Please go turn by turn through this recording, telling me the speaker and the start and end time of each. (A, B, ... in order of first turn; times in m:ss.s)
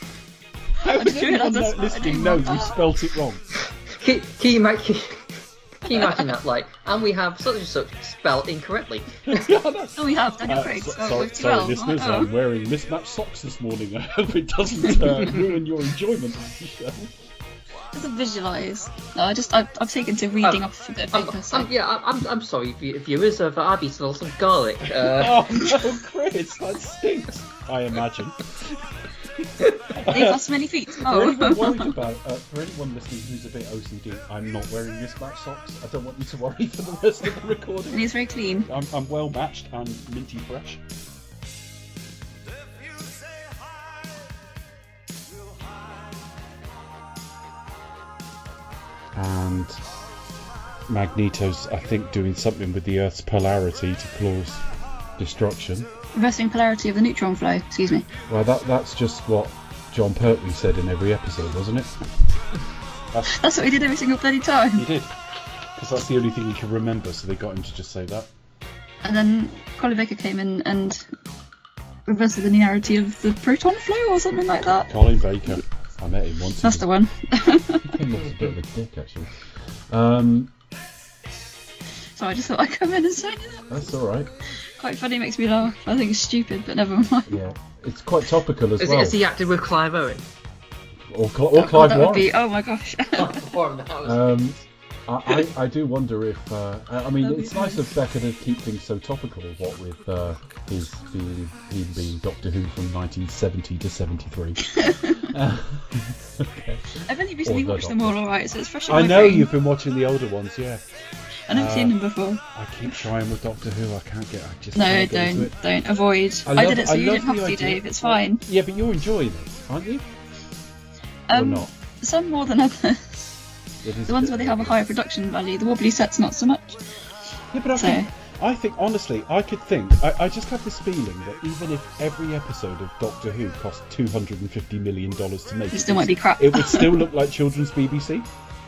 0:00.8-0:03.4 A
0:00.8-0:02.9 B
0:04.0-0:05.3 C
0:05.8-0:09.4 C
0:09.3-0:17.1 A
0:10.0-0:12.3 B
0:17.9-0:21.7 B
0:20.4-0:25.9 C
0:25.0-0:28.5 A
0:29.9-0:30.5 A
0:30.0-0:31.9 B
0:31.0-0:38.0 A
0:37.9-0:38.7 B
0:38.7-0:40.8 A
0:49.1-0:49.8 A
0:50.9-0:54.6 A
0:55.2-0:55.9 A
0:56.1-0:58.1 B
0:58.3-1:02.0 A
1:03.1-1:03.5 A
1:03.3-1:04.9 B
1:04.8-1:05.1 A
1:05.7-1:08.3 A
1:09.0-1:11.1 B
1:12.1-1:14.9 B
1:14.8-1:16.8 A
1:16.6-1:18.0 B
1:17.8-1:20.5 A
1:22.2-1:23.7 B
1:23.7-1:24.3 A
1:24.8-1:27.4 B
1:27.3-1:29.2 A
1:28.8-1:30.2 C
1:31.1-1:32.3 A
1:31.5-1:33.4 B
1:33.2-1:34.4 C
1:34.0-1:48.3 A
1:37.2-1:37.8 B
1:44.8-1:45.2 B
1:47.0-1:49.5 B
1:48.9-1:50.8 A
1:51.5-1:52.9 B
1:51.5-1:52.0 A
1:52.5-1:55.5 A
1:54.7-1:58.4 B
1:56.4-2:00.0 A
2:01.3-2:03.4 B
2:01.3-2:01.7 A
2:03.8-2:04.8 A
2:04.1-2:06.8 B
2:07.5-2:18.3 A
2:07.7-2:08.1 B
2:15.7-2:17.0 B